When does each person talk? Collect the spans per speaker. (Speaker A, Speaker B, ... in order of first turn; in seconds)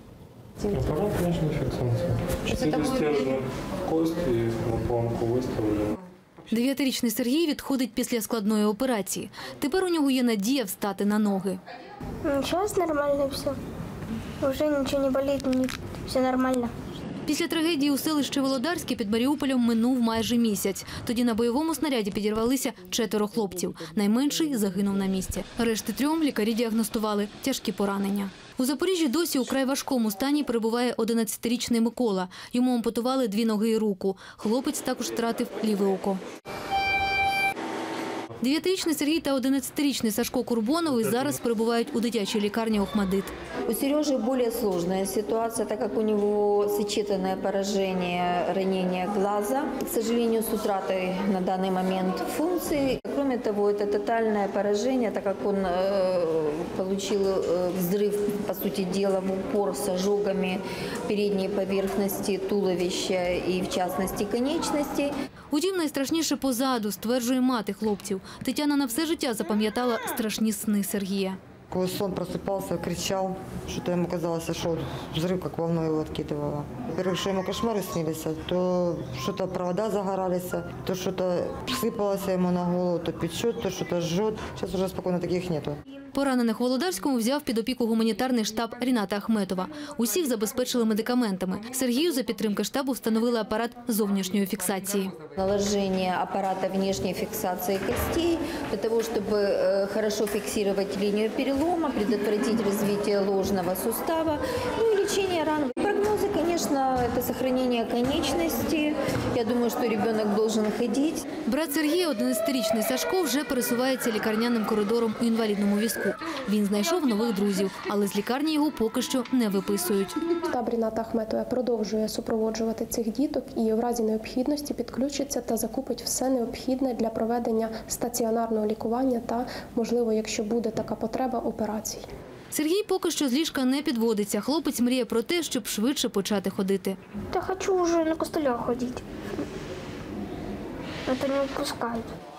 Speaker A: 0.6-6.0
Speaker B: 6.5-11.6, 17.2-36.2, 38.4-43.3, 65.5-71.4, 86.1-95.1, 111.5-120.2, 132.5-137.0
Speaker C: 12.2-13.6, 14.4-16.7, 137.3-139.4, 141.1-142.1
Speaker D: 43.7-65.1, 95.3-111.2
Speaker E: 71.7-85.8
Speaker F: 120.5-132.1